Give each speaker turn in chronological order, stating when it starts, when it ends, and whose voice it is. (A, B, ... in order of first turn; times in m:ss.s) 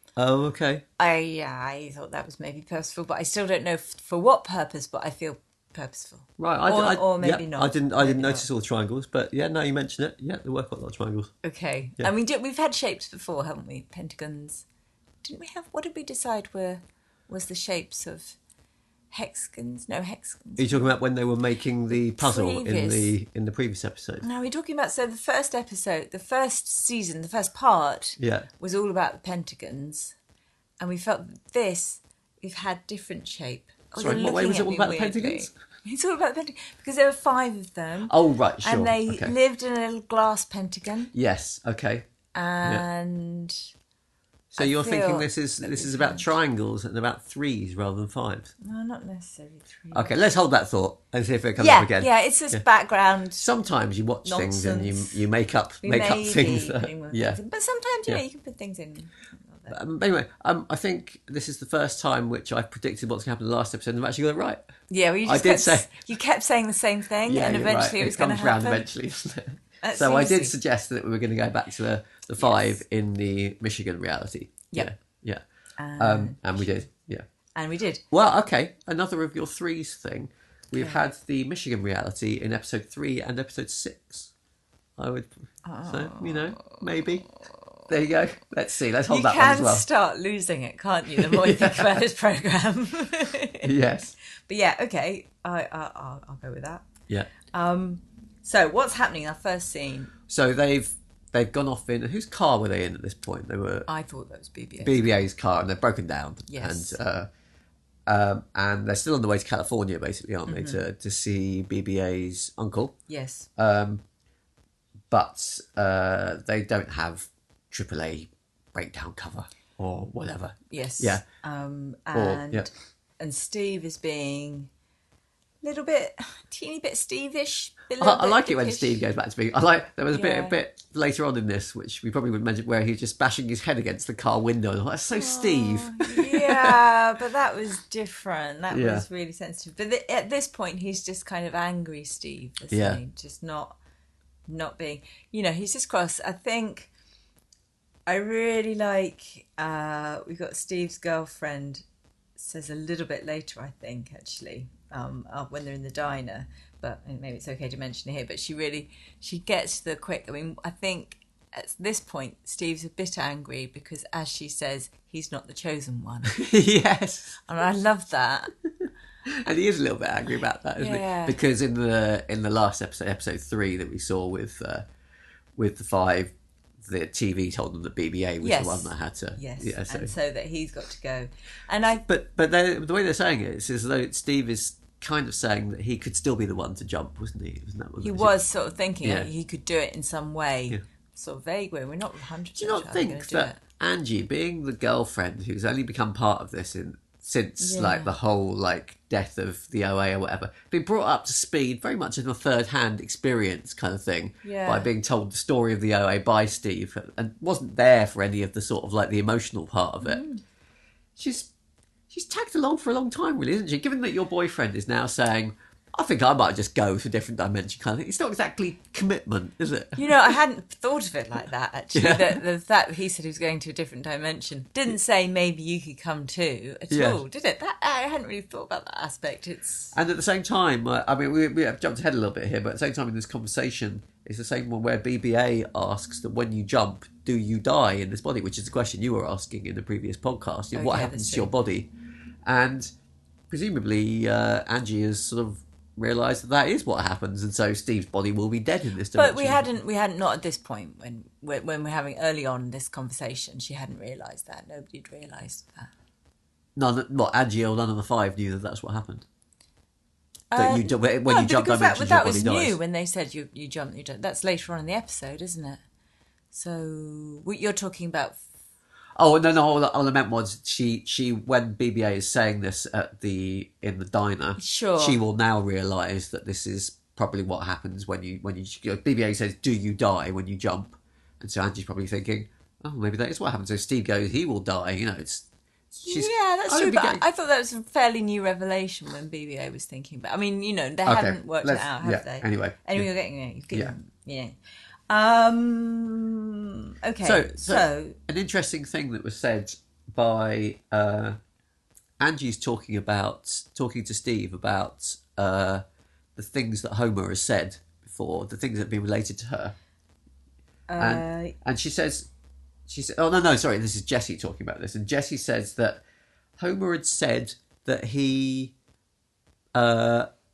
0:00.2-0:00.8 A
0:01.0-0:08.5 B
0:06.4-0:11.3 A
0:11.4-0:14.6 B
0:15.2-0:18.4 B
0:19.1-0:20.9 B
0:20.6-0:24.3 A
0:22.2-0:23.2 B
0:24.2-0:30.2 B
0:28.2-0:28.5 A
0:30.8-0:41.1 B
0:34.0-0:35.5 A
0:38.1-0:39.4 A
0:41.1-0:42.1 A
0:42.3-0:43.6 B
0:44.5-0:48.5 A
0:44.6-0:46.3 B
0:48.6-0:50.2 B
0:49.9-0:52.6 A
0:51.6-0:53.5 B
0:53.4-0:57.4 A
0:54.2-0:55.2 B
0:55.8-0:59.8 B
0:59.7-1:04.6 A
1:04.9-1:08.8 B
1:05.2-1:05.9 A
1:07.3-1:15.4 A
1:09.8-1:10.6 B
1:12.4-1:12.8 B
1:15.8-1:16.8 B
1:16.0-1:17.2 A
1:17.6-1:18.0 B
1:18.1-1:24.3 A
1:20.8-1:21.0 B
1:25.0-1:25.3 A
1:25.6-1:26.9 B
1:25.8-1:27.3 A
1:27.9-1:29.9 A
1:29.1-1:33.7 B
1:31.1-1:32.0 A
1:33.6-1:34.1 A
1:34.5-1:36.9 B
1:37.5-1:40.1 B
1:40.3-1:43.9 A
1:43.9-1:45.2 B
1:44.8-1:47.3 A
1:46.5-1:47.0 B
1:48.1-1:53.0 A
1:50.5-1:50.8 B
1:53.1-1:53.5 B
1:53.6-1:54.0 A
1:55.1-2:01.2 A
2:00.7-2:04.7 B
2:02.2-2:02.7 A
2:05.6-2:09.0 B
2:08.0-2:16.8 A
2:10.1-2:10.6 B
2:15.1-2:23.8 B
2:18.7-2:19.0 A
2:22.7-2:23.0 A
2:24.5-2:26.9 B
2:28.1-2:31.8 B
2:32.4-2:46.4 B
2:46.3-2:47.4 A
2:47.4-2:48.5 B
2:49.2-2:54.9 A
2:50.8-2:51.4 B
2:55.6-3:00.1 A
2:58.4-3:02.0 B
3:02.1-3:08.3 A
3:08.0-3:13.6 B
3:09.0-3:09.3 A
3:12.6-3:30.2 A
3:17.6-3:18.2 B
3:24.4-3:24.9 B
3:30.0-3:30.4 B
3:31.2-3:31.5 A
3:32.1-3:40.4 A
3:40.0-3:50.0 B
3:41.9-3:42.4 A
3:46.9-3:47.2 A
3:49.9-4:01.9 A
4:00.7-4:01.5 B
4:02.4-4:02.9 A
4:03.5-4:09.7 A
4:09.2-4:15.9 B
4:16.8-4:19.3 A
4:20.5-4:25.8 B
4:20.6-4:22.8 A
4:26.5-4:28.4 B
4:29.2-4:47.2 A
4:34.6-4:35.2 B
4:46.1-4:54.5 B
4:51.1-4:53.1 A
4:55.1-4:58.2 B
4:57.2-5:01.4 A
5:02.2-5:05.8 A
5:06.4-5:09.8 A
5:10.9-5:11.6 B
5:11.0-5:12.3 A
5:12.9-5:16.0 A
5:16.6-5:18.7 A
5:19.8-5:20.3 A